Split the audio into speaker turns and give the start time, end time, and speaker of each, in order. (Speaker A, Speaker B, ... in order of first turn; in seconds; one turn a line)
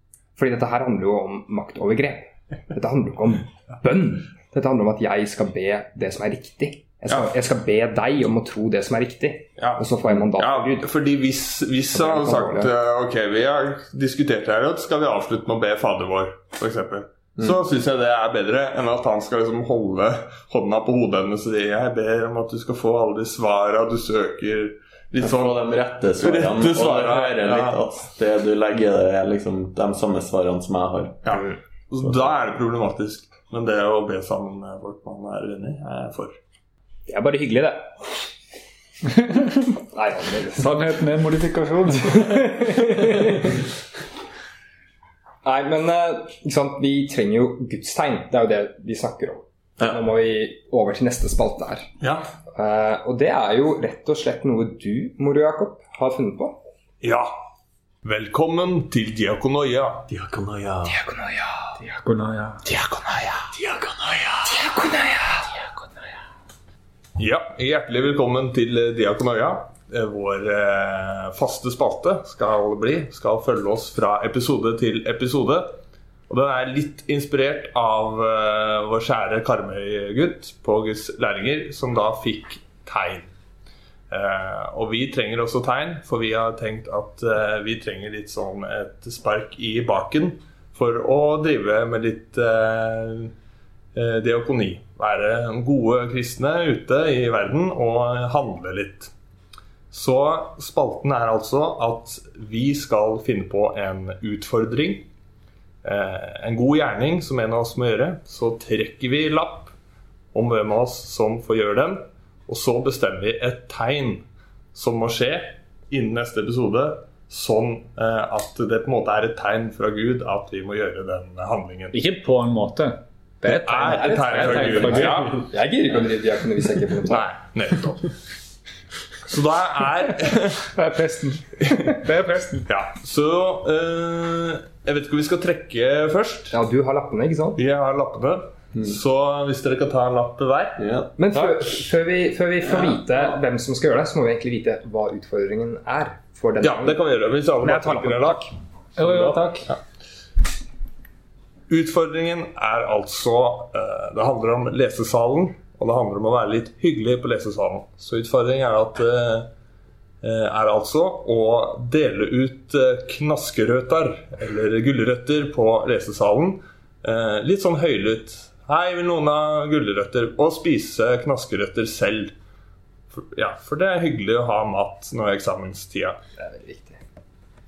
Speaker A: 0.4-10.9
Speaker B: 9.6-25.6
Speaker A: 11.9-12.7
Speaker C: 25.2-31.4
Speaker B: 26.2-27.8
Speaker B: 31.2-36.4
Speaker A: 37.1-38.1
Speaker A: 39.9-40.7
Speaker D: 40.5-42.9
Speaker A: 42.2-43.5
Speaker A: 45.4-51.9
Speaker B: 52.0-52.3
Speaker A: 52.5-56.5
Speaker B: 57.0-57.3
Speaker B: 58.0-60.1
Speaker C: 60.1-61.0
Speaker A: 60.9-61.8
Speaker D: 61.8-62.6
Speaker B: 62.6-63.5
Speaker C: 63.5-64.5
Speaker A: 64.4-65.5
Speaker B: 67.2-75.8
Speaker B: 76.3-83.3
Speaker B: 84.1-93.3
Speaker B: 93.9-99.1
Speaker B: 99.9-105.1
Speaker B: 105.8-109.7
Speaker B: 110.3-121.9
Speaker D: 121.9-123.0
Speaker A: 123.4-127.3
Speaker B: 123.5-125.4
Speaker D: 123.7-125.3
Speaker B: 127.1-128.1
Speaker B: 129.2-130.7
Speaker D: 130.7-132.7
Speaker B: 132.7-136.5
Speaker A: 136.5-137.6
Speaker B: 137.6-140.8
Speaker C: 140.8-141.1
Speaker A: 141.2-147.0
Speaker B: 146.6-148.4
Speaker A: 147.6-148.5
Speaker D: 149.0-149.7
Speaker B: 151.7-159.5
Speaker B: 160.2-172.3
Speaker B: 173.1-176.2
Speaker A: 176.4-177.0